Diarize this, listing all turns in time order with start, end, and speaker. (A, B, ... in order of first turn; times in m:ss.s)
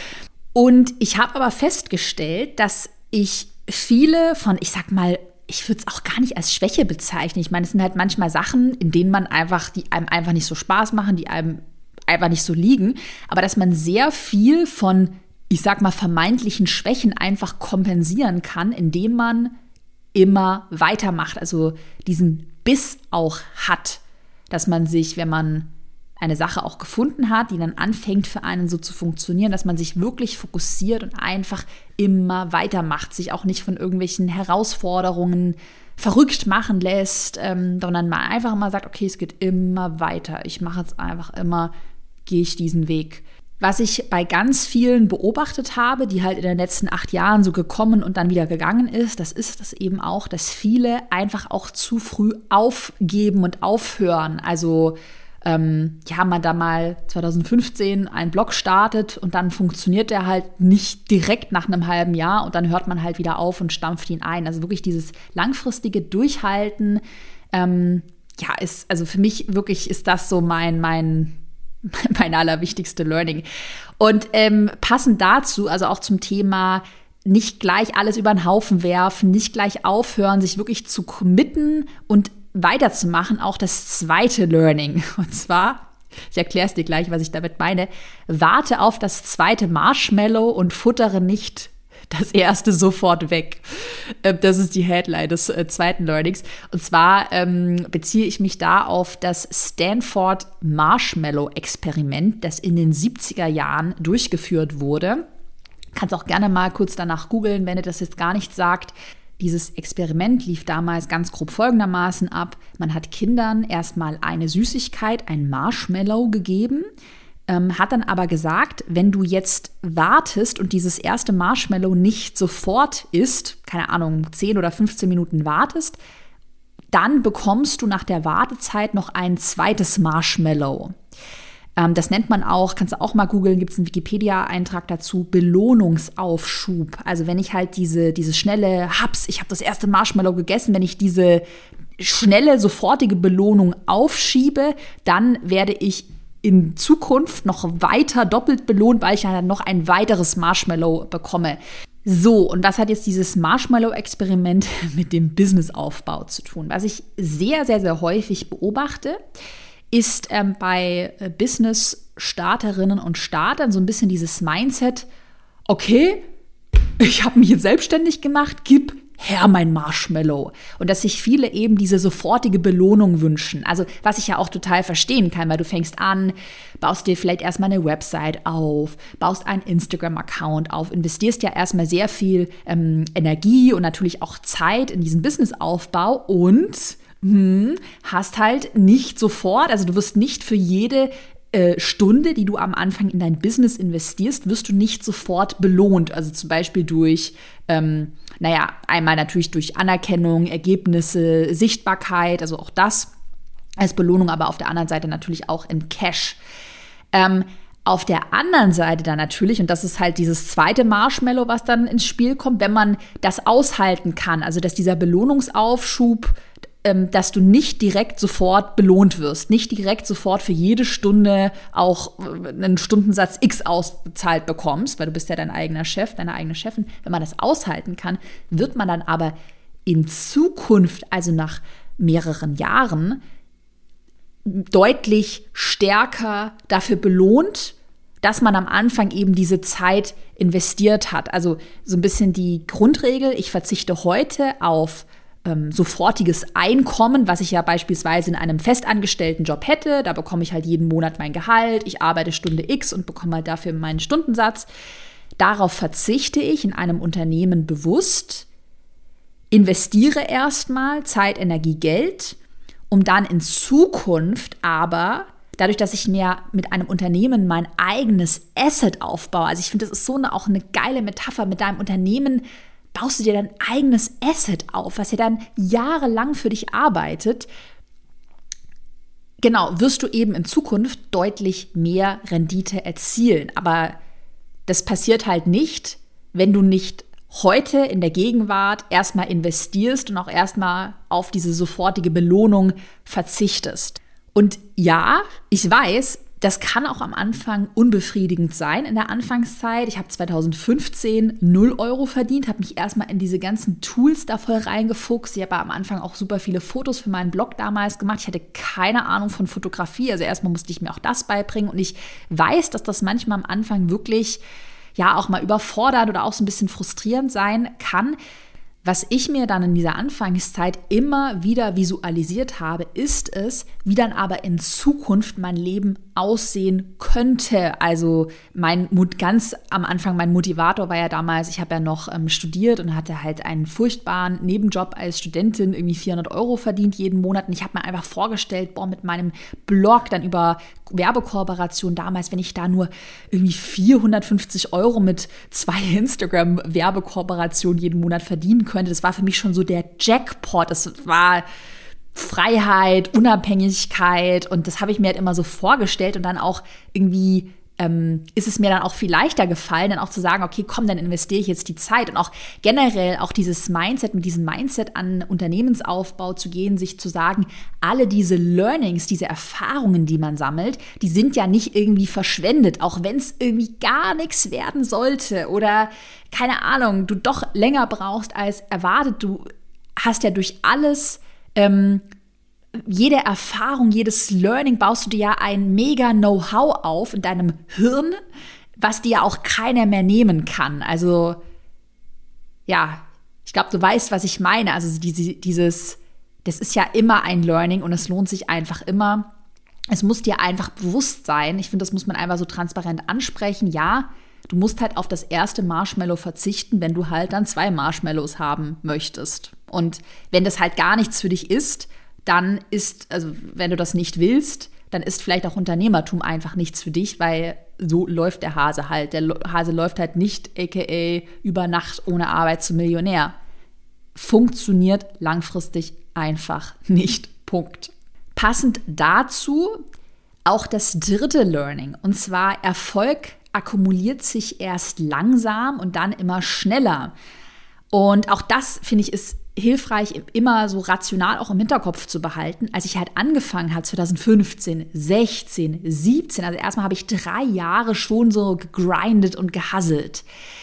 0:00.5-0:19.5 A
0:20.1-0:25.7 A
0:26.2-0:41.7 A
0:42.2-1:07.0 A
1:07.5-1:13.4 A
1:14.0-1:45.2 A
1:45.9-1:56.8 A
1:57.5-2:06.0 A
2:06.9-2:10.9 A
2:11.8-2:21.4 A
2:22.0-2:39.2 A
2:39.9-2:45.1 A
2:45.7-2:46.2 A
2:47.0-3:23.1 A
3:23.8-3:26.4 A
3:27.1-3:49.3 A
3:49.8-3:53.2 A
3:54.4-4:14.7 A
4:15.4-4:18.5 A
4:19.5-4:22.4 A
4:22.9-4:37.5 A
4:39.4-4:44.0 A
4:44.7-5:14.4 A
5:15.0-5:18.2 A
5:18.8-5:51.4 A
5:52.1-6:19.5 A
6:20.0-6:22.0 A
6:22.8-6:28.2 A
6:28.8-6:31.4 A
6:32.7-6:39.3 A
6:39.9-7:03.3 A
7:04.1-7:09.8 A
7:10.4-7:17.1 A
7:17.9-7:30.2 A